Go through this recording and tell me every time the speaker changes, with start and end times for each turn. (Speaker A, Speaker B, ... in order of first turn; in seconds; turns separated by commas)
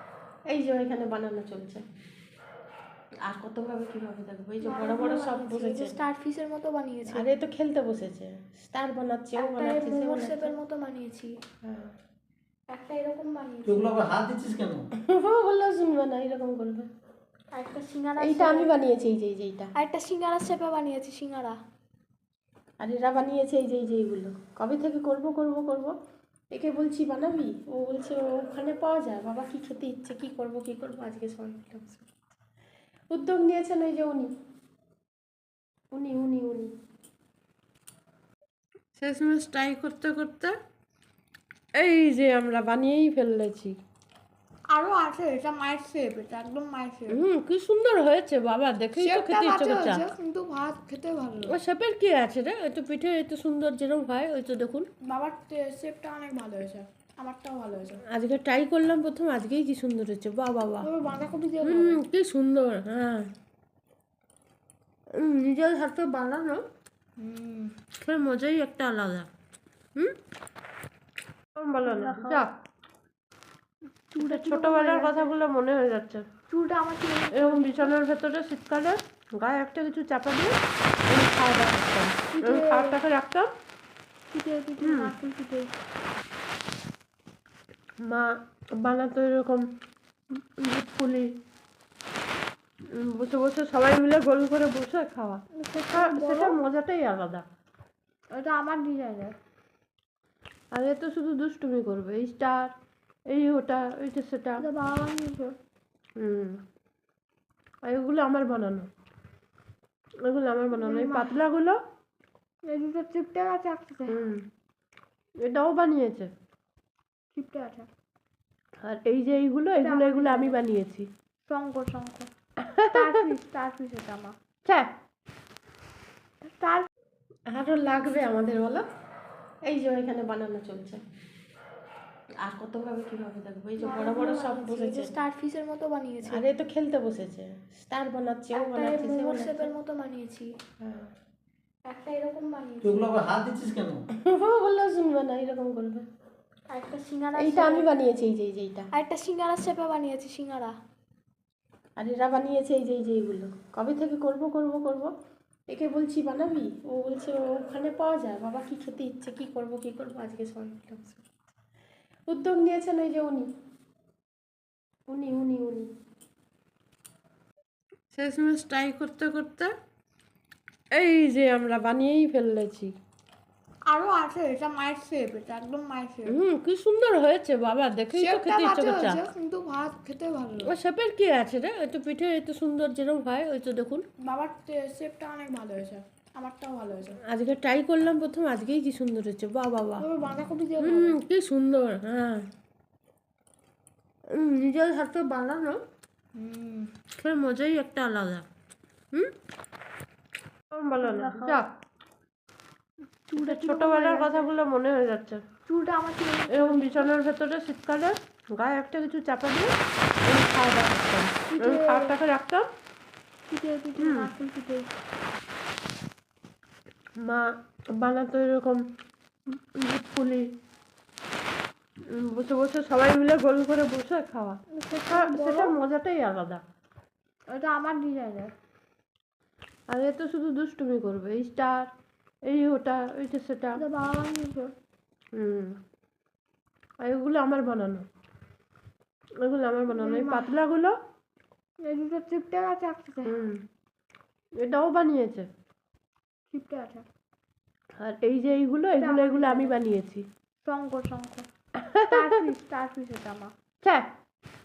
Speaker A: 0.5-1.8, Speaker A: 3.3-6.0, Speaker B: 4.6-7.3, Speaker A: 7.1-10.5, Speaker B: 9.4-11.3, Speaker A: 11.6-11.9, Speaker B: 12.7-13.9, Speaker C: 13.6-14.9, Speaker A: 15.0-16.9, Speaker B: 17.5-18.7, Speaker A: 18.2-19.7, Speaker B: 19.8-21.6, Speaker A: 22.8-25.9, Speaker A: 26.5-32.1, Speaker A: 33.1-34.3, Speaker A: 35.9-36.7, Speaker A: 39.0-40.5, Speaker A: 41.8-43.8, Speaker B: 44.7-47.2, Speaker A: 47.1-50.0, Speaker B: 49.0-51.5, Speaker A: 51.4-54.9, Speaker B: 55.0-58.0, Speaker A: 58.1-60.9, Speaker B: 60.8-62.0, Speaker A: 61.6-63.3, Speaker A: 65.2-66.6, Speaker B: 67.2-67.7, Speaker A: 68.0-69.3, Speaker A: 71.6-72.5, Speaker B: 71.8-72.4, Speaker B: 74.1-75.3, Speaker A: 74.2-76.2, Speaker B: 76.5-77.9, Speaker A: 77.3-80.5, Speaker A: 81.1-83.5, Speaker B: 82.3-83.0, Speaker B: 84.3-85.7, Speaker A: 84.8-85.1, Speaker A: 88.0-89.7, Speaker A: 90.3-91.3, Speaker A: 92.9-97.4, Speaker B: 95.5-96.6, Speaker B: 98.3-99.3, Speaker A: 100.7-102.7, Speaker A: 103.3-104.6, Speaker B: 104.6-105.5, Speaker A: 106.2-106.6, Speaker A: 107.8-108.9, Speaker A: 110.2-111.8, Speaker B: 110.7-111.4, Speaker B: 112.7-114.2, Speaker A: 114.1-114.4, Speaker A: 115.4-116.3, Speaker B: 117.3-117.9, Speaker A: 118.8-121.1, Speaker B: 119.8-120.6, Speaker B: 121.5-122.3, Speaker A: 122.6-123.2, Speaker B: 122.9-124.3, Speaker B: 126.4-126.9, Speaker A: 127.5-128.8, Speaker A: 129.7-131.0, Speaker A: 132.4-135.1, Speaker B: 133.8-136.4, Speaker A: 136.2-139.7, Speaker B: 138.6-140.5, Speaker A: 140.8-141.1, Speaker B: 141.9-143.1, Speaker C: 142.8-144.0, Speaker A: 144.2-146.0, Speaker B: 146.7-147.9, Speaker A: 147.3-148.9, Speaker B: 148.9-150.7, Speaker A: 152.0-155.1, Speaker A: 155.7-161.2, Speaker A: 162.3-163.5, Speaker A: 165.1-165.9, Speaker A: 168.1-169.7, Speaker A: 170.9-172.9, Speaker B: 173.9-176.3, Speaker A: 176.2-179.2, Speaker B: 178.1-180.7, Speaker A: 180.6-184.0, Speaker B: 184.2-187.2, Speaker A: 187.3-190.1, Speaker B: 190.0-191.2, Speaker A: 190.8-192.5, Speaker A: 194.3-195.8, Speaker B: 196.3-196.9, Speaker A: 197.2-198.4, Speaker A: 200.7-201.7, Speaker B: 201.0-201.6, Speaker B: 203.3-204.5, Speaker A: 203.3-205.4, Speaker B: 205.7-207.1, Speaker A: 206.5-209.7, Speaker A: 210.2-212.6, Speaker B: 211.5-212.2, Speaker B: 213.5-214.9, Speaker A: 214.0-214.3, Speaker A: 217.2-218.8, Speaker A: 219.5-220.5, Speaker A: 222.1-226.6, Speaker B: 224.7-225.7, Speaker B: 227.5-228.5, Speaker A: 229.9-231.9, Speaker A: 232.5-233.8, Speaker B: 233.8-234.7, Speaker A: 235.3-235.8, Speaker A: 237.0-238.1, Speaker A: 239.4-240.9, Speaker B: 239.9-240.6, Speaker B: 241.8-243.4, Speaker A: 243.2-243.6, Speaker A: 244.6-245.5, Speaker B: 246.5-247.1, Speaker A: 248.0-250.2, Speaker B: 249.0-249.8, Speaker B: 250.6-251.5, Speaker A: 251.8-252.3, Speaker B: 252.1-253.5